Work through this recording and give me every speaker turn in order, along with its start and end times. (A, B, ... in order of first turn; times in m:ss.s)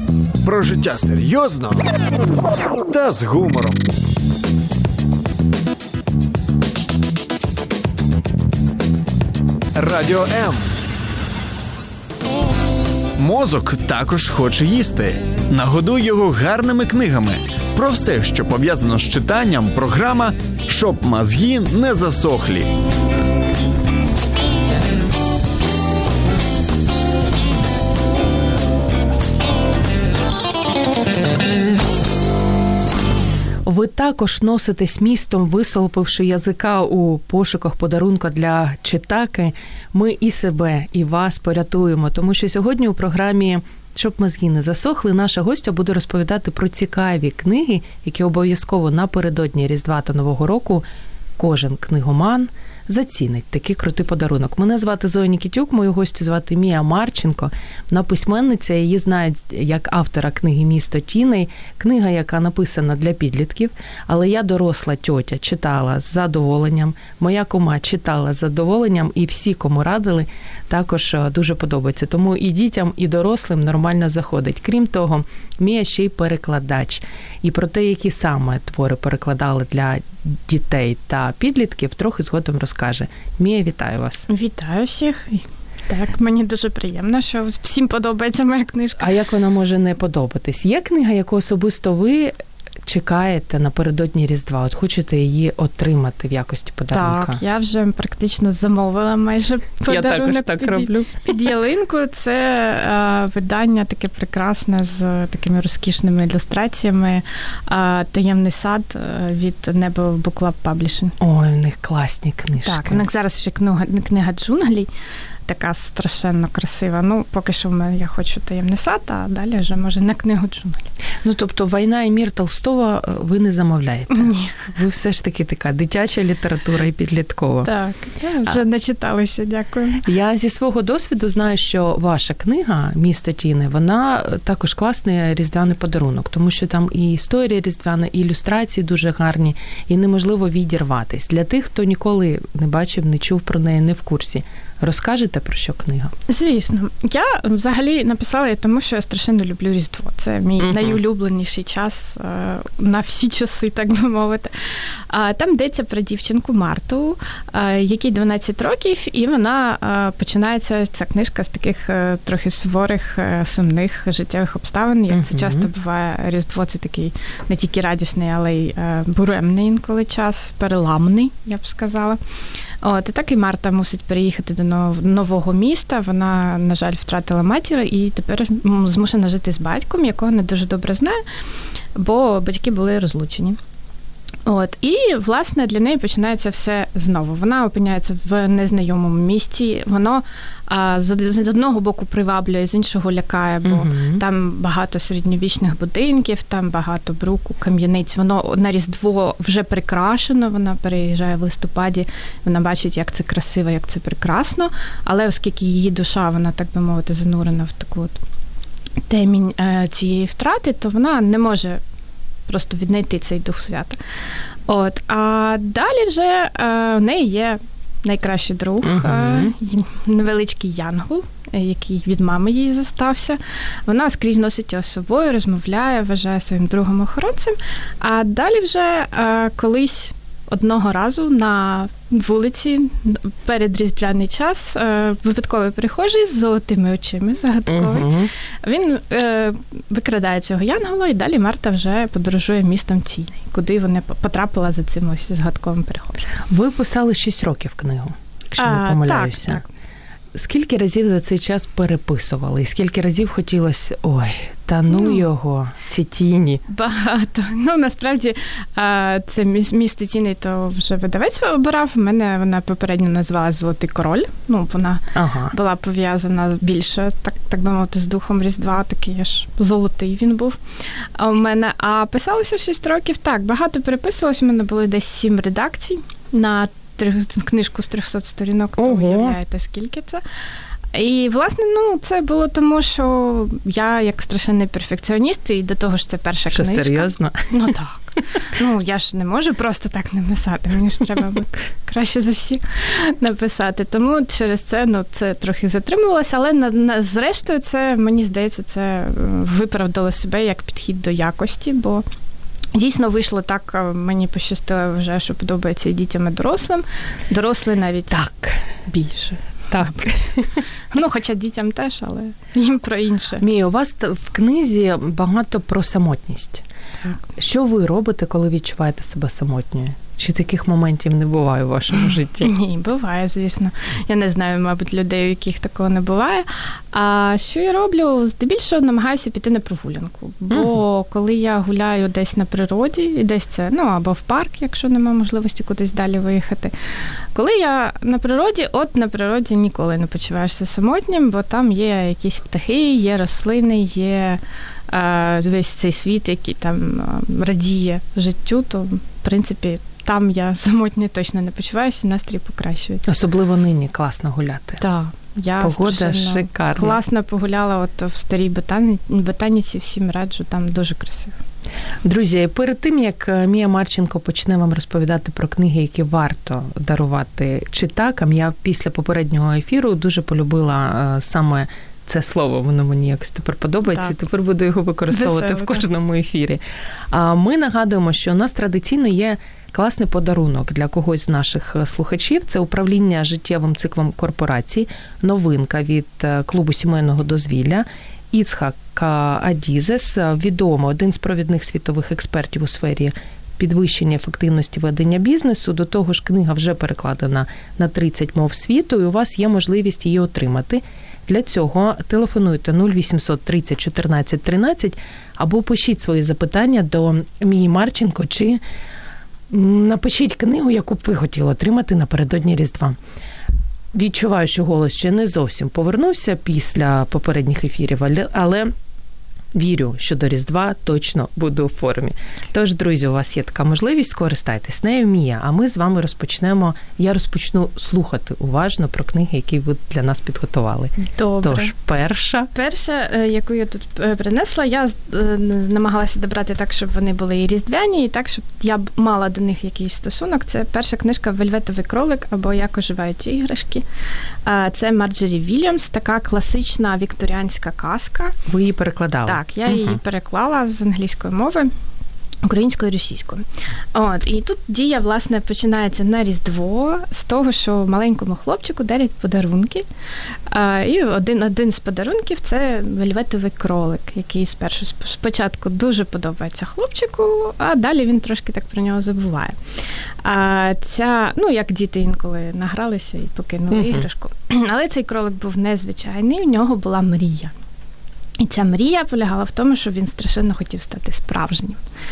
0:00.4-0:01.8 A
0:02.6-0:03.8 A
0:09.7-0:10.7 A
0:13.2-0:22.7 A
0:33.6-0:50.8 B
0:51.4-1:24.3 B
1:24.3-1:29.1 C
1:29.0-1:32.3 B
1:32.8-1:37.4 B
1:36.9-1:51.2 C
1:39.9-1:41.2 B
1:51.2-1:53.0 B
1:52.6-1:54.9 C
1:55.5-2:00.9 C
2:01.2-2:07.7 B
2:04.1-2:04.7 C
2:07.6-2:10.0 C
2:10.0-2:26.1 B
2:26.3-2:52.2 C
2:30.6-2:31.0 B
2:45.1-2:45.7 B
2:52.8-3:01.2 C
3:01.9-3:03.6 C
3:04.4-3:28.2 C
3:13.6-3:14.2 B
3:29.1-3:31.8 C
3:32.5-3:34.0 C
3:34.7-3:58.1 C
3:38.8-3:39.5 B
3:57.7-3:58.3 B
3:58.6-4:06.3 C
4:06.5-4:09.6 B
4:08.6-4:09.7 C
4:10.3-4:16.6 B
4:14.9-4:15.2 C
4:16.7-4:30.6 C
4:25.1-4:25.5 B
4:31.2-4:40.2 C
4:38.8-4:39.4 B
4:40.9-5:02.0 C
4:46.5-4:47.5 B
5:02.7-5:08.3 C
5:08.1-5:08.6 B
5:08.8-5:10.1 C
5:09.7-5:10.6 B
5:10.9-5:13.4 C
5:13.4-5:16.6 B
5:17.3-5:22.5 B
5:22.4-5:36.7 C
5:37.3-5:53.1 C
5:53.0-5:54.8 B
5:54.8-6:01.3 C
5:55.6-5:57.0 B
6:02.0-6:48.6 B
6:15.1-6:15.8 C
6:49.5-6:53.0 B
6:53.9-6:58.7 B
6:59.5-7:12.5 B
7:11.0-7:11.7 C
7:12.5-7:23.8 C
7:24.4-7:28.4 C
7:28.4-7:30.0 B
7:29.2-7:31.7 C
7:32.4-7:39.8 C
7:40.5-7:49.6 C
7:50.2-7:57.5 C
7:53.7-7:54.0 B
7:58.4-8:01.8 C